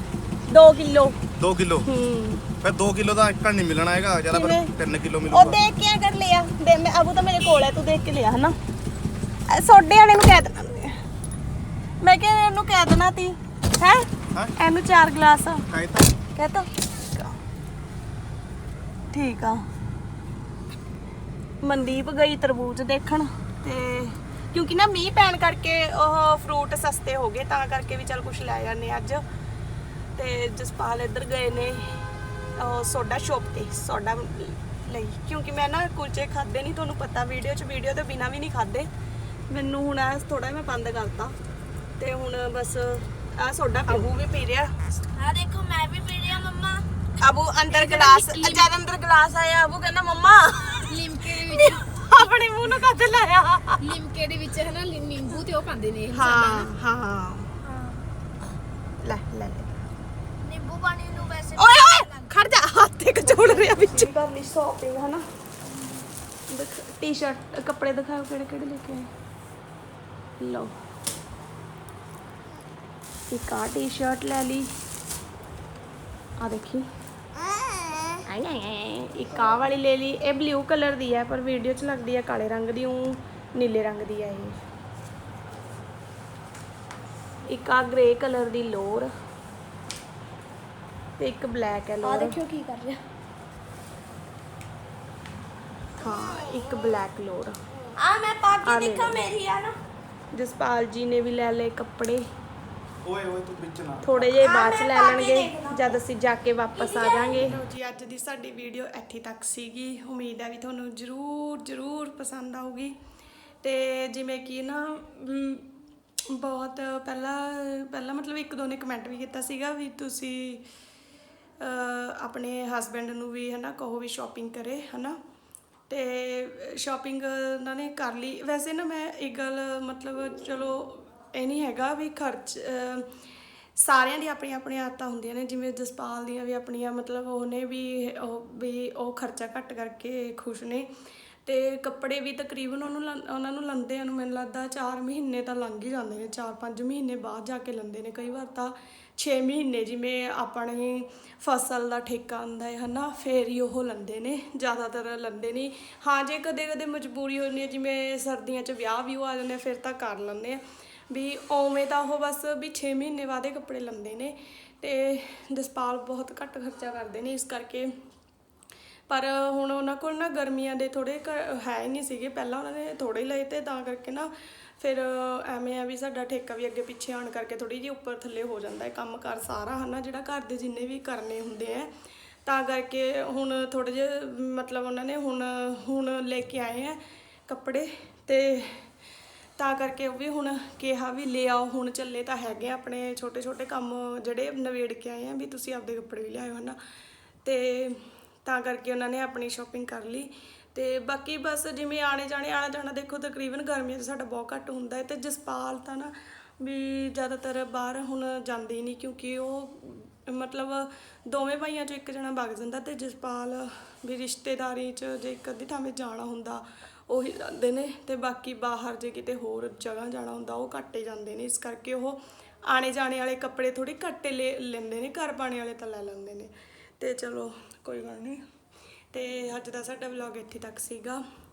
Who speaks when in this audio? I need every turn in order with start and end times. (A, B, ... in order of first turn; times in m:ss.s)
0:00.5-0:01.2 A
0:01.4-0:01.8 B
0:01.8-0:02.4 A
0:02.6-0:05.6 B
0:04.3-0:04.7 A
0:05.3-0:08.6 A
0:09.5-0:11.0 A
0:12.0-0:15.6 A
0:15.7-0:16.1 B
0:16.3-0:17.4 A
0:19.1-0:19.6 A
0:21.6-0:29.2 A
0:30.2-0:32.0 A
0:32.6-0:38.9 A
0:39.5-0:41.3 A
0:42.0-0:44.9 A
0:43.9-0:44.1 C
0:45.1-0:46.8 D
0:47.2-0:54.0 A
0:47.7-0:48.7 C
0:50.9-0:51.8 C
0:53.8-0:56.7 C
0:56.1-0:57.5 A
0:59.0-0:59.8 A
1:00.4-1:02.4 D
1:01.5-1:05.2 A
1:06.5-1:09.1 A
1:10.4-1:10.7 A
1:13.3-1:14.7 A
1:16.4-1:16.8 A
1:18.3-1:24.6 A
1:27.5-1:29.1 A
1:31.2-1:32.4 A
1:32.0-1:33.0 D
1:36.0-1:37.6 A
1:36.0-1:36.6 D
1:37.9-1:39.8 D
1:38.6-1:39.3 A
1:40.3-1:42.2 A
1:43.0-1:44.3 B
1:44.0-1:52.9 A
1:44.3-1:46.0 D
1:46.7-1:47.5 D
1:53.6-1:55.7 A
1:56.3-2:00.6 A
2:01.6-2:05.2 A
2:05.9-2:13.1 A
2:13.8-2:20.9 A
2:21.4-2:47.9 A
2:49.1-3:01.9 A
3:02.4-3:08.9 A
3:09.6-3:16.8 A
3:17.4-3:48.4 A
3:49.1-3:51.2 A